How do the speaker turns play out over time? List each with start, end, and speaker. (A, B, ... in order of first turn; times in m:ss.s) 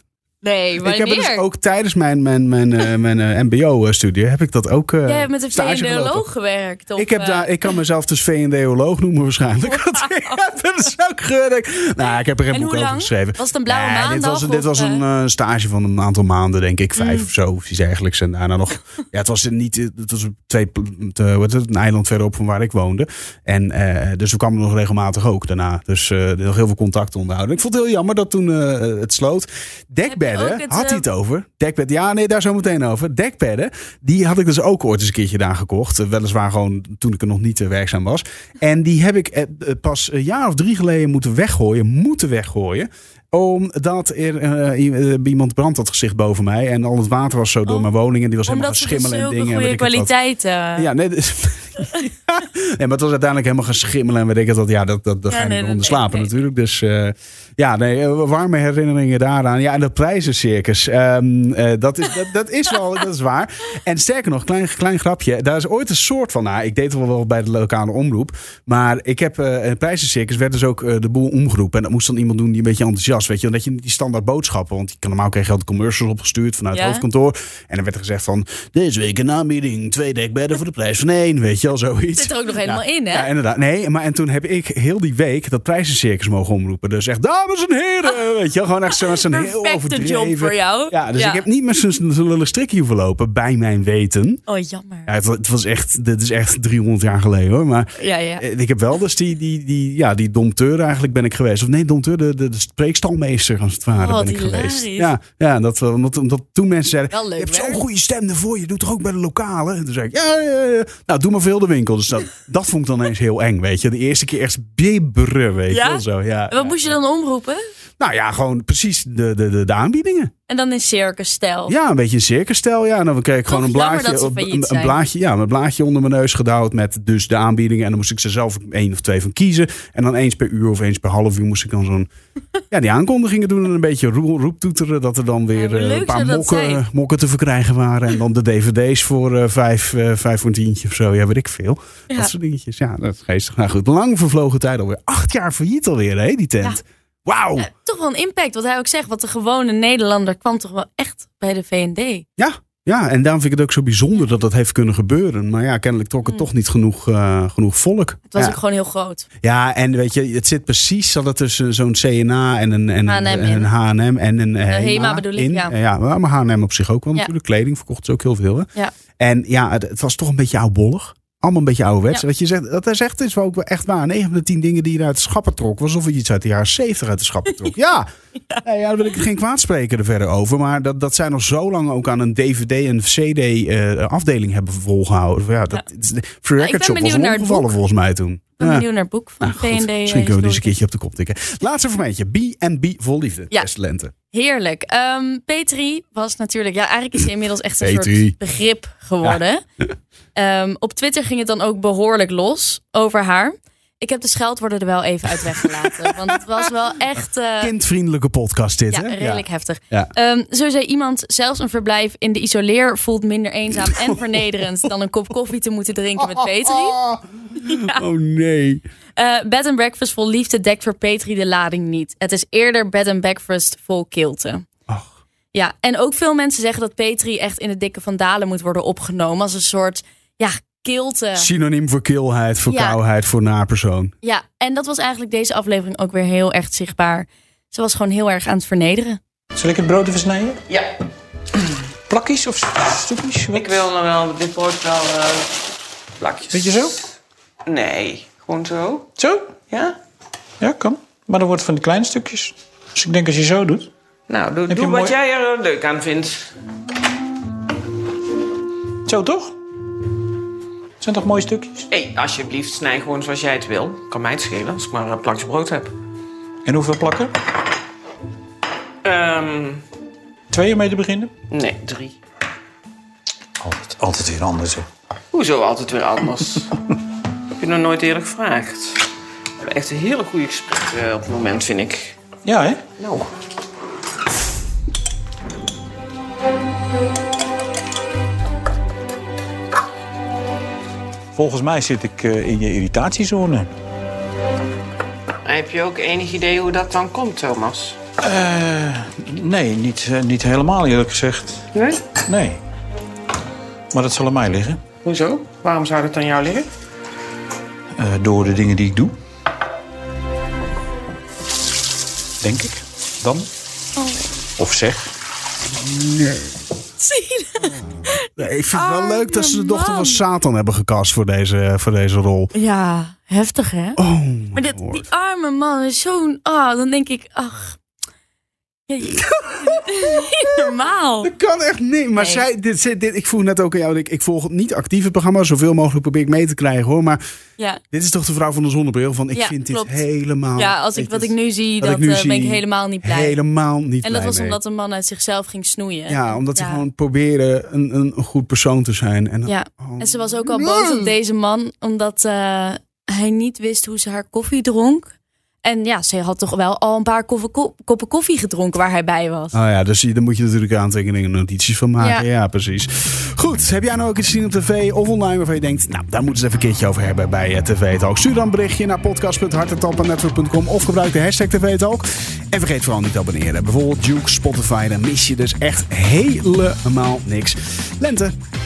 0:00.4-0:01.4 A
0:00.8-0:06.2 B
0:05.0-0:07.5 A
0:07.0-0:50.1 B
0:09.7-0:10.0 A
0:12.0-0:15.0 A
0:17.0-0:17.2 A
0:30.1-0:31.0 A
0:48.4-0:50.9 A
0:50.8-1:34.4 B
0:55.3-0:56.4 A
1:16.7-1:17.0 A
1:22.1-1:23.3 A
1:29.0-1:31.4 A
1:34.5-1:35.1 A
1:35.1-1:57.0 B
1:38.0-1:38.4 A
1:43.9-1:45.1 A
1:47.1-1:47.8 A
1:55.7-1:57.6 A
1:58.0-2:00.3 B
2:00.5-2:01.7 A
2:01.7-2:12.1 B
2:03.5-2:05.0 A
2:12.7-2:27.7 B
2:15.6-2:16.8 A
2:27.6-2:32.2 A
2:32.4-2:38.6 B
2:38.3-2:39.3 A
2:39.4-2:48.7 B
2:43.0-2:43.7 A
2:44.7-2:45.7 A
2:49.2-2:58.1 B
2:58.6-3:08.8 B
3:06.6-3:07.8 A
3:08.6-3:10.7 A
3:09.4-3:14.1 B
3:14.3-3:19.6 A
3:17.8-3:18.4 B
3:20.4-3:27.7 A
3:27.6-3:30.1 B
3:28.9-3:37.0 A
3:36.2-3:38.8 B
3:37.6-3:38.0 A
3:39.2-3:44.6 A
3:45.5-3:51.5 A
3:51.4-3:54.1 B
3:52.7-3:53.0 A
3:54.2-3:59.2 A
3:59.5-4:00.6 C
4:02.1-4:03.7 C
4:03.5-4:05.5 D
4:06.2-4:06.9 D
4:06.5-4:07.0 C
4:07.6-4:09.0 D
4:09.2-4:09.5 C
4:09.7-4:10.0 D
4:10.6-4:13.9 C
4:14.3-4:16.5 D
4:14.7-4:15.2 C
4:19.0-4:19.5 C
4:21.0-4:21.8 C
4:21.9-4:25.9 D
4:26.6-4:27.3 C
4:29.0-4:29.8 D
4:30.5-4:31.3 C
4:31.5-4:32.1 D
4:33.6-4:34.8 C
4:35.3-4:36.7 D
4:37.6-4:39.0 D
4:39.6-4:42.2 D
4:42.4-4:42.8 C
4:43.0-4:43.3 D
4:51.4-4:53.7 C
4:55.4-4:58.0 D
4:58.2-5:01.6 C
5:01.7-5:02.0 D
5:02.1-5:02.6 C
5:03.9-5:04.8 C
5:05.0-5:06.7 D
5:08.0-5:09.1 C
5:12.4-5:13.5 C
5:14.0-5:14.3 A
5:14.6-5:15.1 C
5:15.8-5:16.5 B
5:17.0-5:20.2 A
5:18.4-5:22.5 B
5:22.5-5:24.0 A
5:24.0-5:25.0 B
5:24.5-5:27.8 A
5:28.9-5:31.3 A
5:31.2-5:37.2 B
5:32.2-5:32.4 A
5:37.9-5:44.6 B
5:39.3-5:43.4 A
5:44.0-5:46.8 A
5:46.1-5:51.1 B
5:49.4-5:55.1 A
5:55.6-5:59.6 A
5:59.5-6:18.3 B
6:02.0-6:02.2 A